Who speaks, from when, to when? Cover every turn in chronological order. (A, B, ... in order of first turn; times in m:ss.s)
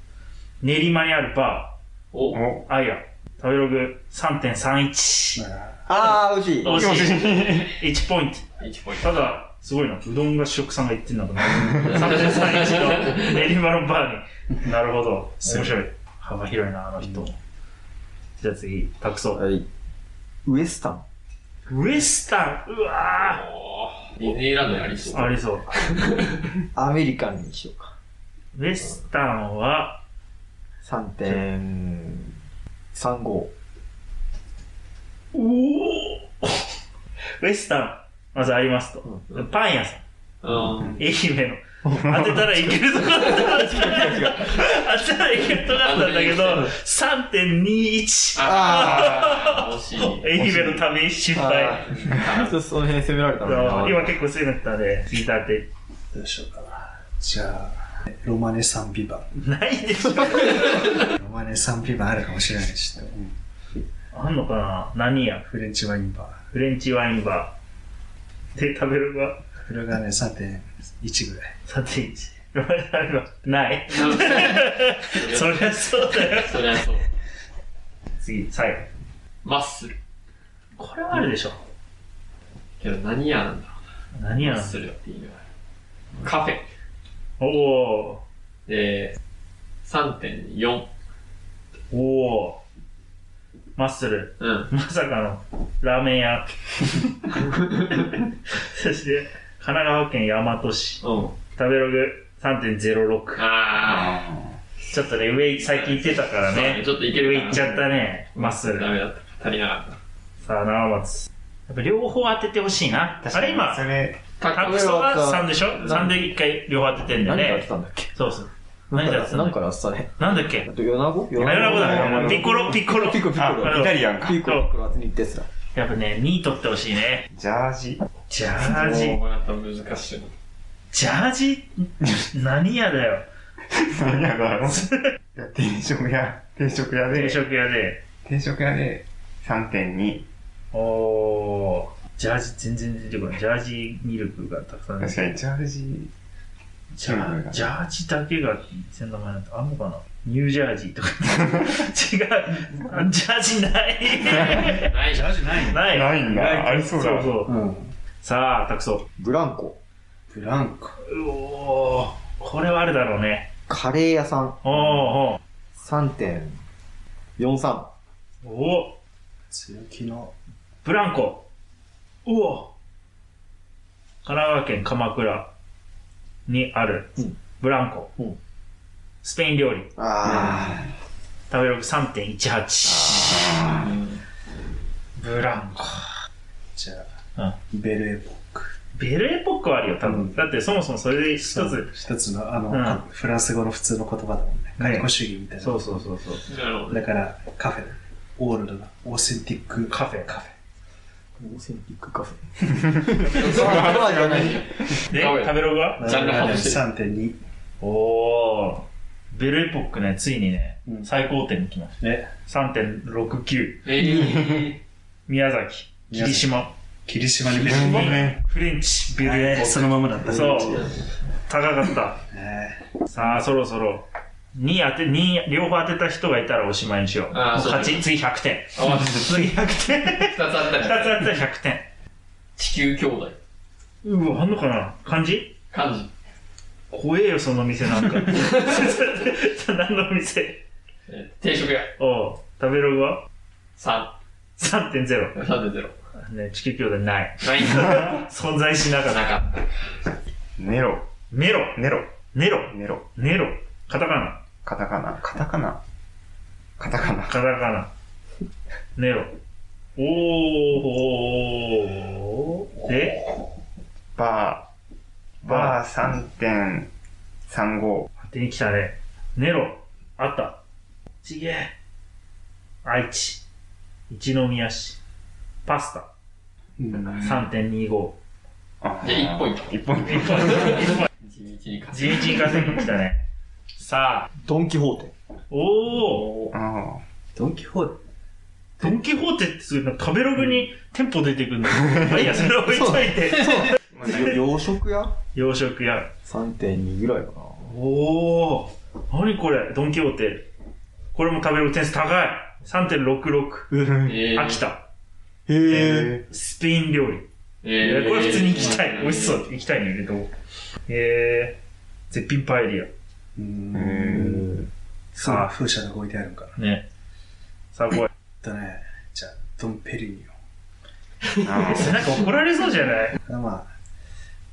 0:00.6-0:01.8 A
0:02.1-0:02.4 B
0:02.3-0:02.7 C
0:02.7-0:05.4 A
0:05.4-0:05.9 D
0:05.9-0:07.4 E
0:06.0-0:08.4 A
0:06.7-0:07.7 C
0:08.6-0:09.2 B
0:09.0-0:17.4 A
0:11.8-0:13.5 B
0:15.4-0:15.8 D
0:18.4-0:19.4 A
0:19.3-0:19.7 E
0:20.4-0:21.0 E
0:21.7-0:23.4 A
0:23.2-0:26.5 B
0:25.1-0:25.7 A
0:26.7-0:27.9 E
0:28.5-0:30.0 A
0:30.8-0:32.3 E
0:32.9-0:33.5 E
0:35.3-0:36.7 A
0:37.4-0:40.0 A
0:40.4-0:41.0 B
0:40.8-0:52.4 A
0:41.9-0:42.3 E
0:43.5-0:44.4 E
0:45.6-0:46.7 B
0:48.4-0:50.3 B
0:48.5-0:48.8 E
0:51.3-0:54.1 E
0:52.0-0:52.5 B
0:53.4-0:55.7 A
0:56.1-0:59.3 D
0:59.3-1:01.0 A
1:01.0-1:03.3 D
1:04.1-1:05.4 A
1:05.4-1:06.4 D
1:06.5-1:07.5 A
1:08.6-1:09.4 A
1:09.6-1:11.5 D
1:11.7-1:16.6 A
1:13.9-1:17.1 B
1:18.2-1:18.9 A
1:19.4-1:20.0 B
1:20.8-1:21.6 A
1:22.8-1:23.7 B
1:24.1-1:24.8 A
1:24.4-1:25.4 B
1:26.2-1:26.6 B
1:27.4-1:28.2 A
1:28.7-1:29.2 B
1:29.8-1:30.9 B
1:31.9-1:32.6 A
1:33.8-1:37.0 A
1:34.4-1:34.7 B
1:37.4-1:37.9 B
1:38.0-1:43.4 A
1:41.0-1:41.3 B
1:43.4-1:44.2 B
1:43.9-1:44.5 C
1:44.9-1:48.9 A
1:45.6-1:50.0 B
1:50.4-1:53.8 A
1:53.2-1:54.2 C
1:54.4-1:54.9 B
1:54.5-1:59.6 A
1:54.6-1:56.1 E
1:55.7-1:56.1 B
1:57.2-1:58.1 E
1:58.9-2:05.5 E
2:00.2-2:00.7 A
2:01.4-2:04.7 A
2:01.4-2:04.5 C
2:05.7-2:07.3 A
2:07.3-2:08.0 C
2:08.3-2:09.2 A
2:08.6-2:10.3 B
2:10.9-2:13.2 A
2:13.7-2:17.4 C
2:14.7-2:15.1 A
2:17.1-2:18.0 A
2:18.2-2:20.2 C
2:20.7-2:25.2 A
2:25.0-2:26.1 C
2:26.9-2:34.9 A
2:27.0-2:27.6 C
2:34.2-2:35.3 B
2:35.1-2:36.0 D
2:35.6-2:37.5 A
2:35.9-2:37.2 E
2:36.1-2:37.3 C
2:37.4-2:37.9 D
2:38.2-2:39.0 A
2:39.2-2:39.8 E
2:40.3-2:41.0 D
2:41.0-2:43.5 A
2:43.7-2:44.6 E
2:44.6-2:45.4 A
2:45.8-2:46.6 E
2:47.4-2:47.9 E
2:48.4-2:49.0 A
2:49.5-2:50.3 D
2:50.8-2:51.4 A
2:52.2-2:52.7 A
2:54.2-2:55.5 A
2:56.4-2:58.1 A
2:59.2-2:59.9 A
3:00.0-3:00.8 E
3:00.2-3:00.8 D
3:01.5-3:03.4 A
3:02.8-3:03.9 E
3:03.2-3:04.2 B
3:03.3-3:03.7 C
3:05.2-3:06.1 A
3:06.7-3:07.1 D
3:07.7-3:08.7 D
3:08.9-3:11.9 A
3:10.0-3:10.4 D
3:11.4-3:16.1 D
3:12.7-3:13.0 A
3:14.8-3:16.5 A
3:16.5-3:17.1 B
3:16.9-3:20.5 D
3:19.9-3:20.3 A
3:21.4-3:24.5 E
3:22.8-3:24.3 D
3:23.1-3:26.8 B
3:23.4-3:24.0 C
3:25.0-3:26.5 A
3:26.0-3:27.4 D
3:27.8-3:31.9 A
3:32.0-3:32.3 D
3:32.4-3:33.8 A
3:33.8-3:34.8 B
3:35.3-3:36.7 A
3:36.1-3:36.5 D
3:37.0-3:38.4 D
3:37.5-3:40.9 A
3:37.7-3:38.3 E
3:39.2-3:40.9 D
3:41.5-3:42.2 A
3:42.3-3:43.3 D
3:43.1-3:51.8 A
3:47.3-3:48.0 B
3:48.7-3:49.5 B
3:50.2-3:51.3 B
3:52.6-3:53.4 B
3:54.0-3:55.5 A
3:55.7-3:56.1 B
3:56.9-4:00.6 A
4:01.1-4:01.9 B
4:02.0-4:03.2 A
4:03.8-4:04.1 B
4:04.6-4:05.4 A
4:05.3-4:05.9 B
4:06.2-4:09.3 A
4:07.4-4:08.2 B
4:09.0-4:09.8 B
4:10.6-4:11.0 C
4:11.3-4:11.8 A
4:11.7-4:12.0 C
4:12.3-4:14.4 A
4:12.7-4:13.0 C
4:14.6-4:15.8 C
4:16.8-4:17.3 C
4:17.3-4:17.9 A
4:19.0-4:19.3 A
4:20.0-4:23.2 A
4:24.2-4:24.6 C
4:25.4-4:26.9 C
4:25.4-4:25.8 A
4:27.5-4:28.1 C
4:28.2-4:30.6 A
4:31.2-4:31.7 A
4:32.8-4:33.4 A
4:34.1-4:35.0 A
4:35.6-4:36.1 A
4:36.8-4:37.3 D
4:37.1-4:38.2 A
4:38.8-4:40.7 C
4:39.0-4:39.7 B
4:40.1-4:41.1 A
4:40.1-4:40.5 E
4:41.2-4:42.6 B
4:41.9-4:43.2 A
4:43.8-4:44.3 A
4:44.4-4:45.1 E
4:45.5-4:46.3 A
4:46.5-4:47.0 C
4:47.3-4:48.0 D
4:48.8-4:53.8 A
4:52.0-4:55.2 E
4:55.3-4:56.1 A
4:56.2-4:57.7 E
4:57.6-5:00.5 A
5:01.1-5:04.8 A
5:03.7-5:04.1 E
5:04.0-5:04.6 B
5:05.5-5:06.2 E
5:05.8-5:06.2 C
5:06.3-5:07.2 A
5:07.6-5:09.4 B
5:07.8-5:10.3 A
5:10.9-5:11.6 A
5:12.1-5:12.9 A
5:13.4-5:14.6 D
5:13.7-5:14.6 E
5:15.1-5:15.5 A
5:15.2-5:16.6 D
5:16.6-5:16.8 A
5:17.7-5:18.1 A
5:18.4-5:20.3 D
5:21.4-5:21.8 C
5:21.5-5:23.2 A
5:23.2-5:23.7 D